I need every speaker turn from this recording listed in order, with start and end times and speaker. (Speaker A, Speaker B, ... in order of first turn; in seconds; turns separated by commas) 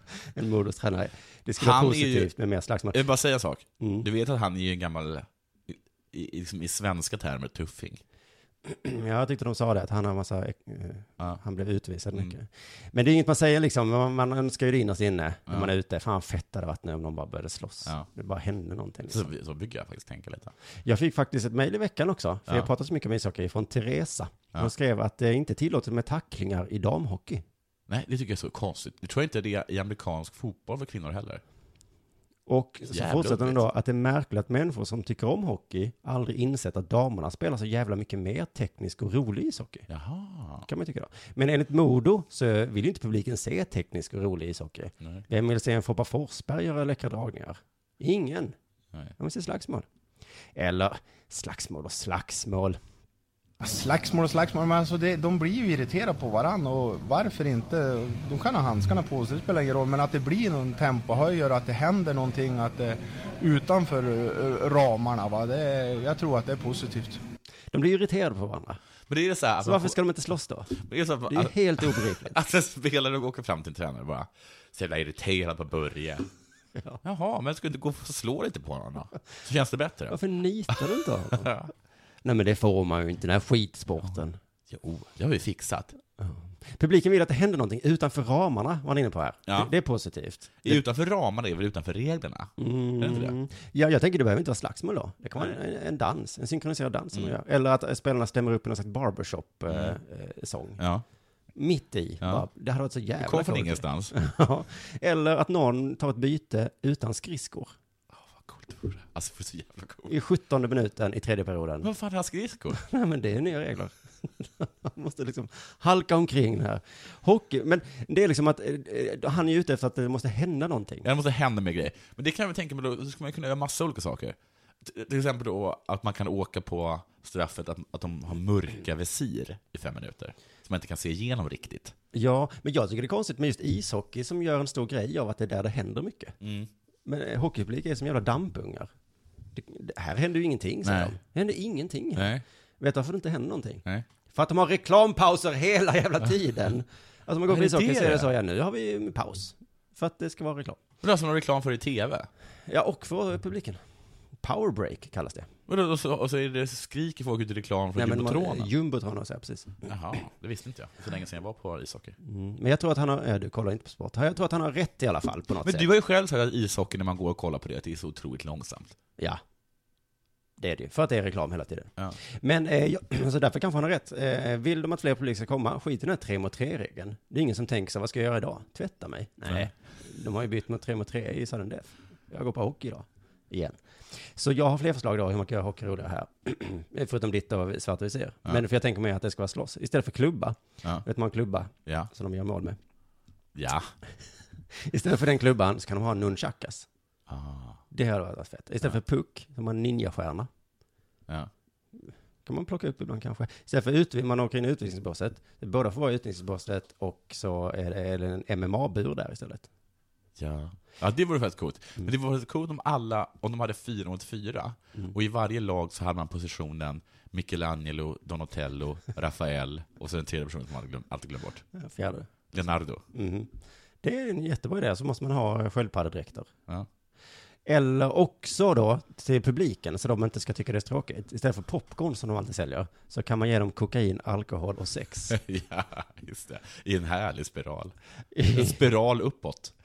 Speaker A: 0.2-3.0, Speaker B: 1.6-2.3, Speaker B: 2.9-8.0, Speaker A: 3.8-4.0, Speaker A: 8.6-19.3, Speaker B: 19.1-20.5, Speaker A: 20.8-27.4, Speaker B: 27.9-31.4, Speaker A: 32.5-39.9, Speaker B: 32.9-33.6, Speaker B: 39.9-40.7, Speaker A: 40.6-48.5, Speaker A: 49.2-49.9, Speaker A: 50.5-52.8, Speaker C: 53.6-67.2, Speaker A: 67.7-68.8, Speaker B: 69.1-70.0, Speaker A: 69.6-70.7, Speaker B: 70.7-76.3, Speaker A: 71.3-72.3, Speaker B: 77.0-80.2, Speaker A: 80.1-81.7, Speaker B: 81.3-81.7, Speaker A: 82.2-84.4, Speaker B: 84.7-85.9, Speaker A: 86.2-90.8, Speaker B: 89.5-89.7, Speaker B: 90.6-93.3, Speaker A: 92.6-100.8, Speaker B: 99.7-100.0, Speaker B: 100.8-101.0, Speaker A: 101.5-107.7, Speaker B: 103.2-104.1, Speaker B: 108.2-110.1, Speaker A: 110.0-111.9, Speaker B: 111.8-112.8, Speaker A: 112.7-121.1, Speaker B: 121.0-131.9, Speaker A: 132.1-136.3, Speaker B: 136.4-136.7, Speaker A: 137.1-138.9, Speaker A: 139.5-150.8, Speaker B: 140.8-141.1, Speaker B: 142.2-142.4, Speaker B: 147.5-148.3, Speaker B: 151.0-152.3, Speaker A: 152.7-153.8, Speaker A: 154.4-155.5, Speaker B: 155.7-158.7, Speaker A: 157.9-159.7, Speaker B: 159.8-162.1, Speaker A: 162.2-165.8, Speaker B: 165.6-168.9, Speaker A: 170.6-192.8, Speaker B: 193.5-193.9, Speaker A: 194.8-196.9, Speaker B: 197.3-197.8, Speaker A: 197.9-200.5, Speaker A: 202.4-209.7, Speaker B: 210.4-221.6, Speaker A: 221.7-222.3, Speaker B: 222.5-223.0, Speaker A: 223.1-223.5, Speaker A: 224.0-226.5, Speaker A: 227.7-235.4, Speaker B: 235.3-237.9, Speaker A: 238.3-238.8, Speaker B: 238.5-239.7